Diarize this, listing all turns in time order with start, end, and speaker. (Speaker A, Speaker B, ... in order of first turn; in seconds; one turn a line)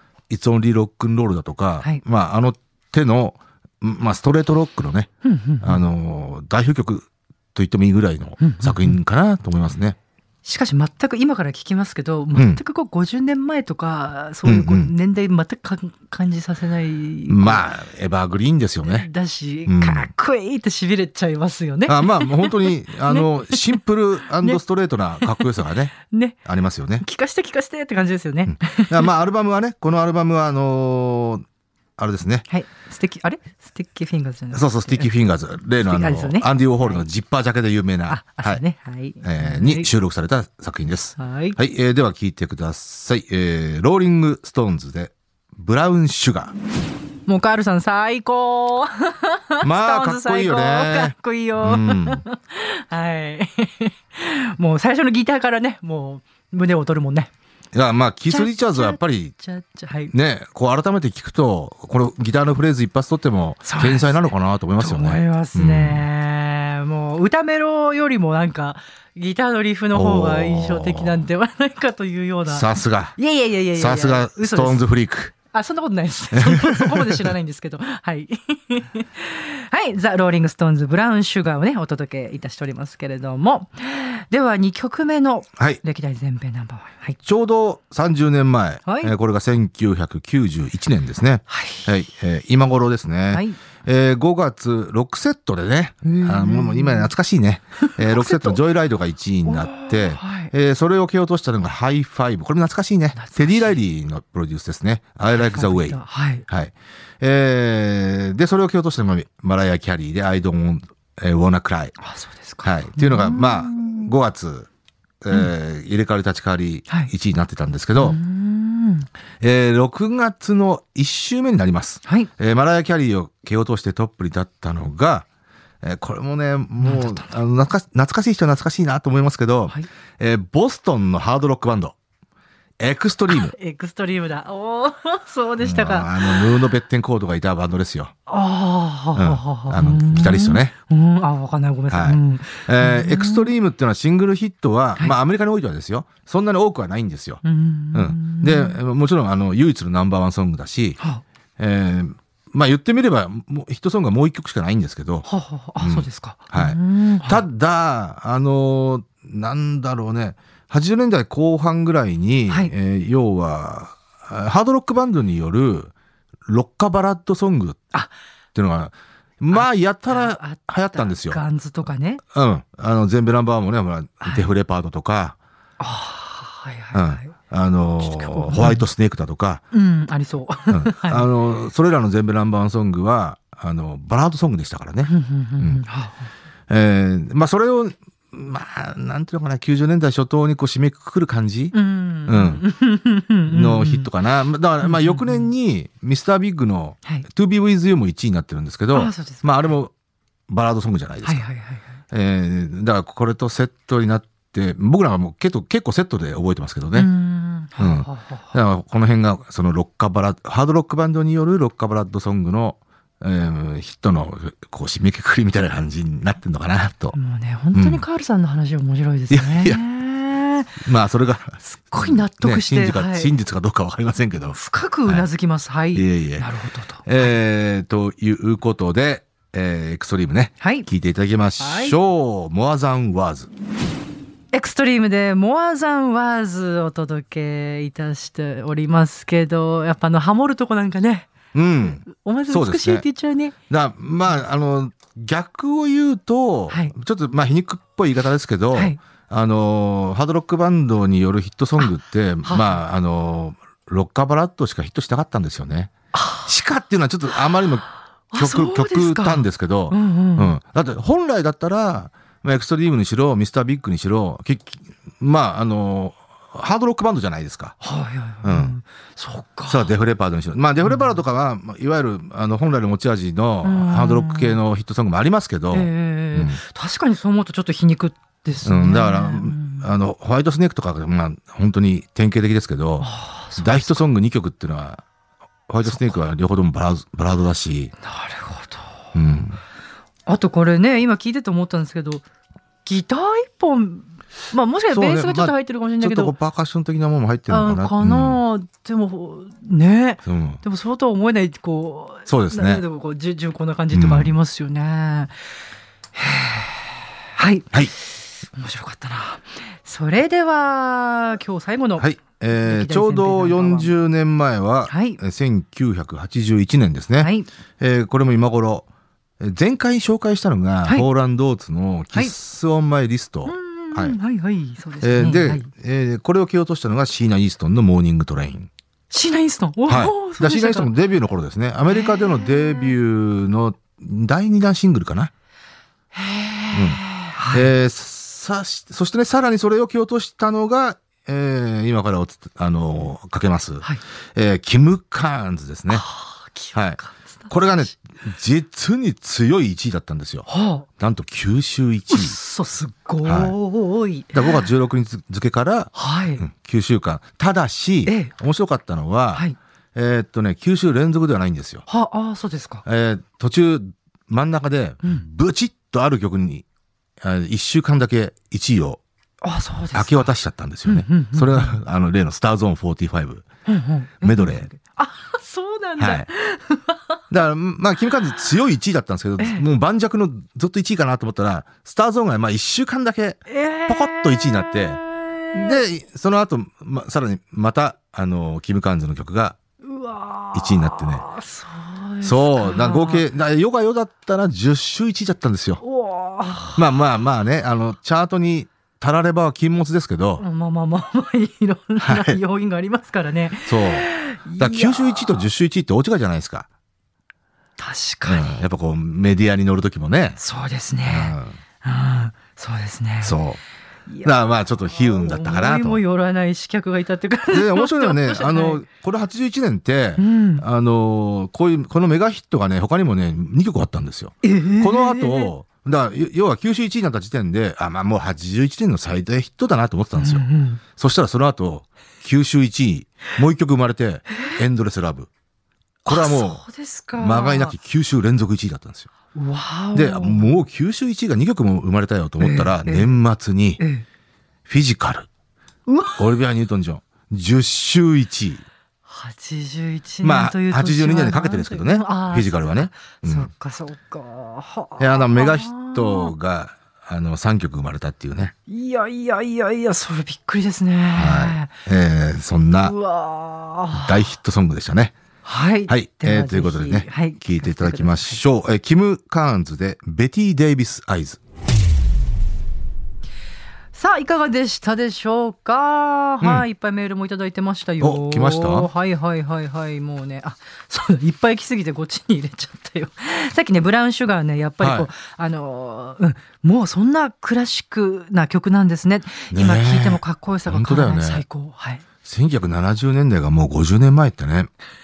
Speaker A: 0.3-5.1
Speaker B: 5.2-5.8
Speaker A: 5.6-10.0
Speaker B: 8.4-9.0
Speaker B: 10.4-17.7
Speaker A: 12.4-12.6
Speaker A: 14.4-14.9
Speaker A: 17.3-19.1
Speaker B: 18.9-23.8
Speaker A: 19.7-20.1
Speaker A: 21.9-25.9
Speaker B: 25.2-26.4
Speaker A: 26.4-27.1
Speaker B: 27.0-29.1
Speaker A: 28.5-31.4
Speaker A: 32.0-32.4
Speaker B: 32.5-35.1
Speaker A: 34.5-38.6
Speaker B: 35.8-37.1
Speaker B: 38.1-39.9
Speaker A: 39.2-46.5
Speaker B: 41.2-41.6
Speaker B: 47.2-57.3
Speaker A: 49.6-52.2
Speaker A: 57.7-59.4
Speaker B: 58.3-60.1
Speaker A: 60.1-66.1
Speaker B: 63.6-74.8
Speaker A: 69.9-71.2
Speaker A: 72.5-73.2
Speaker A: 73.8-75.3
Speaker B: 75.5-87.2
Speaker A: 76.3-77.3
Speaker A: 87.2-111.9
Speaker B: 88.8-89.1
Speaker B: 91.5-91.9
Speaker B: 93.3-93.6
Speaker B: 96.0-97.1
Speaker B: 97.8-98.6
Speaker B: 99.5-100.5
Speaker B: 103.1-103.8
Speaker B: 105.3-106.4
Speaker B: 112.0-114.1
Speaker A: 112.6-114.7
Speaker A: 115.2-118.2
Speaker B: 118.0-119.1
Speaker A: 119.4-125.3
Speaker B: 122.0-122.3
Speaker A: 125.8-131.9
Speaker B: 126.8-127.4
Speaker A: 132.8-133.5
Speaker B: 133.3-136.6
Speaker A: 135.6-138.1
Speaker B: 138.3-143.5
Speaker A: 139.1-140.7
Speaker A: 141.9-147.4
Speaker B: 147.4-148.8
Speaker A: 147.9-151.0
Speaker A: 151.6-155.2
Speaker B: 155.2-157.4
Speaker A: 155.8-165.9
Speaker A: 166.5-167.8
Speaker A: 168.5-171.4
Speaker B: 169.5-172.2
Speaker A: 172.3-175.4
Speaker B: 174.2-174.5
Speaker B: 175.8-177.3
Speaker A: 176.9-179.6
Speaker B: 178.0-178.8
Speaker B: 179.7-181.3
Speaker A: 180.7-185.8
Speaker B: 185.1-186.3
Speaker A: 186.7-191.8
Speaker B: 191.7-194.1
Speaker A: 192.3-192.6
Speaker A: 193.5-199.9
Speaker B: 194.8-195.5
Speaker B: 198.9-199.7
Speaker A: 200.5-201.4
Speaker B: 201.2-201.9
Speaker A: 202.1-207.1
Speaker B: 206.9-208.5
Speaker A: 207.8-217.2
Speaker B: 217.1-220.8
Speaker A: 217.7-218.0
Speaker A: 219.3-219.8
Speaker A: 220.8-225.3
Speaker B: 221.6-223.3
Speaker B: 224.5-227.3
Speaker A: 225.9-226.5
Speaker A: 227.1-233.5
Speaker B: 230.6-230.9
Speaker B: 231.6-232.0
Speaker B: 234.5-241.3
Speaker A: 241.5-243.1
Speaker B: 242.0-243.5
Speaker A: 243.7-255.9
Speaker B: 246.7-246.9
Speaker B: 252.4-252.8
Speaker B: 256.1-256.5
Speaker A: 256.4-267.8
Speaker B: 258.3-260.6
Speaker B: 267.8-269.9
Speaker A: 268.4-268.7
Speaker A: 269.7-276.6
Speaker B: 270.8-271.2
Speaker B: 273.6-274.6
Speaker B: 275.7-279.9
Speaker A: 278.6-285.0
Speaker B: 283.0-284.1
Speaker A: 285.7-287.9
Speaker B: 285.9-286.2
Speaker B: 288.0-289.1
Speaker A: 289.1-289.6
Speaker B: 290.3-292.2
Speaker B: 292.8-296.3
Speaker A: 294.9-298.4
Speaker B: 297.5-305.3
Speaker A: 300.2-300.6
Speaker A: 302.3-302.8
Speaker A: 303.9-304.3
Speaker B: 306.1-313.9
Speaker A: 312.0-318.9
Speaker B: 314.9-315.2
Speaker B: 317.2-317.5
Speaker A: 319.4-324.2
Speaker B: 323.4-325.7
Speaker A: 325.0-328.7
Speaker B: 329.1-330.9
Speaker A: 329.9-335.3
Speaker B: 331.9-332.9
Speaker B: 336.1-337.7
Speaker A: 336.7-346.0
Speaker B: 345.9-347.9
Speaker A: 346.7-347.0
Speaker A: 347.5-350.5
Speaker B: 350.5-350.9
Speaker A: 351.0-352.4
Speaker B: 352.1-354.6
Speaker A: 353.2-353.6
Speaker A: 354.3-359.4
Speaker B: 355.9-356.4
Speaker B: 358.1-358.3
Speaker A: 359.9-361.8
Speaker B: 361.9-362.8
Speaker A: 362.9-366.6
Speaker A: 367.2-369.0
Speaker B: 369.4-370.3
Speaker A: 369.9-373.4
Speaker B: 370.9-371.8
Speaker B: 373.7-377.0
Speaker A: 374.2-374.7
Speaker A: 376.0-376.3
Speaker A: 377.3-385.0
Speaker B: 379.4-379.7
Speaker B: 383.5-385.8
Speaker A: 385.5-389.6
Speaker B: 389.8-393.3
Speaker A: 390.5-391.2
Speaker A: 392.2-395.8
Speaker B: 395.8-396.9
Speaker A: 396.7-400.4
Speaker B: 400.4-405.4
Speaker A: 402.0-402.4
Speaker A: 403.7-406.7
Speaker B: 407.8-408.6
Speaker A: 408.3-410.4
Speaker B: 410.4-413.4
Speaker A: 411.1-411.6
Speaker A: 413.2-413.6
Speaker B: 414.1-414.3
Speaker A: 414.2-416.0
Speaker B: 414.9-418.8
Speaker A: 417.5-435.3
Speaker B: 420.2-420.6
Speaker B: 424.4-425.5
Speaker B: 430.2-430.8
Speaker A: 436.1-436.6
Speaker B: 436.1-437.7
Speaker A: 437.2-439.1
Speaker B: 439.3-440.5
Speaker A: 439.9-443.8
Speaker B: 442.4-443.1
Speaker B: 443.8-444.1
Speaker A: 444.7-445.3
Speaker B: 445.9-446.2
Speaker A: 446.2-448.7
Speaker B: 449.1-456.3
Speaker A: 450.2-453.5
Speaker A: 455.0-458.5
Speaker B: 458.7-461.7
Speaker A: 461.1-462.9
Speaker B: 462.8-464.3
Speaker A: 463.9-465.1
Speaker B: 465.4-468.4
Speaker A: 465.9-471.4
Speaker B: 473.9-492.1
Speaker A: 478.0-478.9
Speaker A: 484.8-485.1
Speaker A: 489.5-491.4
Speaker A: 492.2-494.7